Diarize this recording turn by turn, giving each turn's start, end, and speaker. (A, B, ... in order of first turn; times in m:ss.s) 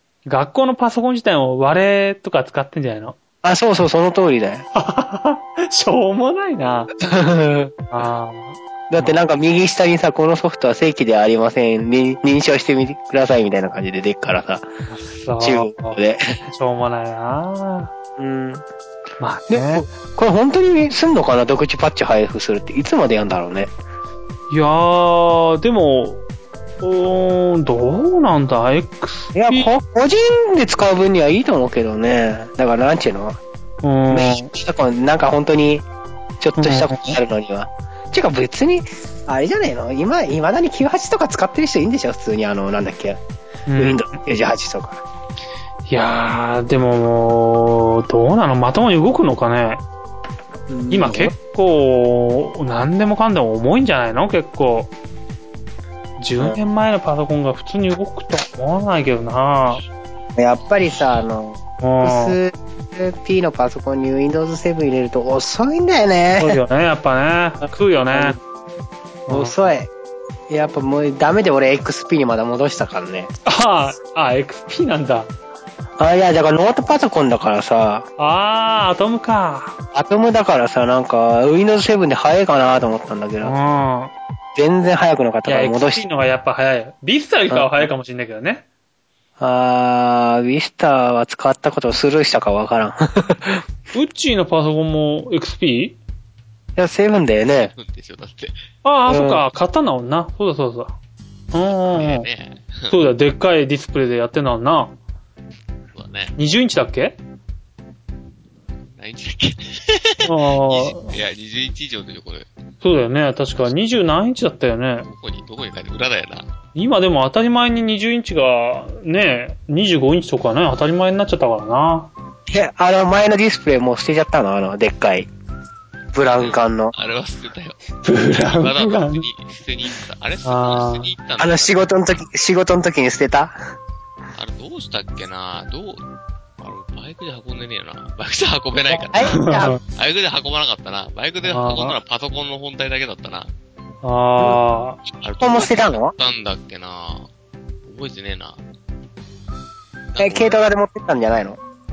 0:00.2-0:03.2 A
0:03.4-0:04.6 B
0:04.7-0:06.9 A
0:07.0-0:07.7 B
0:07.9-0:09.2 A
0:08.9-0:14.6 B
0:14.9-0:17.9 A
0:15.4-0:16.2 B
0:18.2-0:18.6 B
0:19.2-0:19.8 A
0:19.5-0:23.7 B
0:24.5-0:26.2 A
0:26.8-0:29.7 A
0:29.3-0:33.4 B
0:33.8-0:34.5 A
0:34.1-0:35.8 B
0:36.4-0:43.2 B
0:36.6-0:37.2 A
0:43.7-0:44.0 A
0:43.8-0:45.0 B
0:45.9-0:49.8 A
0:50.7-0:51.3 B
0:50.9-0:54.9 A
0:56.2-0:59.8 A
1:00.4-1:06.6 B
1:01.8-1:02.4 A
1:06.4-1:08.4 A
1:08.1-1:08.4 B
1:09.3-1:09.6 A
1:09.3-1:09.9 B
1:10.5-1:13.3 B
1:13.4-1:15.3 A
1:16.0-1:18.0 B
1:18.2-1:19.8 A
1:19.9-1:23.5 B
1:23.4-1:24.1 A
1:24.5-1:26.0 B
1:25.4-1:28.6 A
1:29.4-1:33.6 B
1:33.9-1:36.0 A
1:36.8-1:37.7 B
1:37.4-1:38.6 C
1:38.8-1:40.9 A
1:39.1-1:39.4 B
1:41.5-1:42.3 A
1:41.9-1:42.9 C
1:42.9-1:44.9 A
1:45.9-1:46.3 C
1:46.4-1:47.2 A
1:49.0-1:52.5 C
1:50.2-1:51.1 A
1:52.8-1:55.1 A
1:55.0-1:56.5 C
1:56.7-2:02.1 A
2:02.5-2:05.3 B
2:06.1-2:06.9 B
2:06.2-2:11.9 C
2:08.0-2:09.2 A
2:10.4-2:11.1 A
2:11.4-2:13.6 B
2:14.3-2:16.0 C
2:16.6-2:23.5 C
2:18.9-2:19.8 B
2:19.3-2:19.8 A
2:21.5-2:22.0 A
2:24.0-2:25.0 A
2:25.2-2:27.3 C
2:25.4-2:26.1 B
2:27.8-2:28.6 C
2:30.1-2:30.6 C
2:30.2-2:31.6 B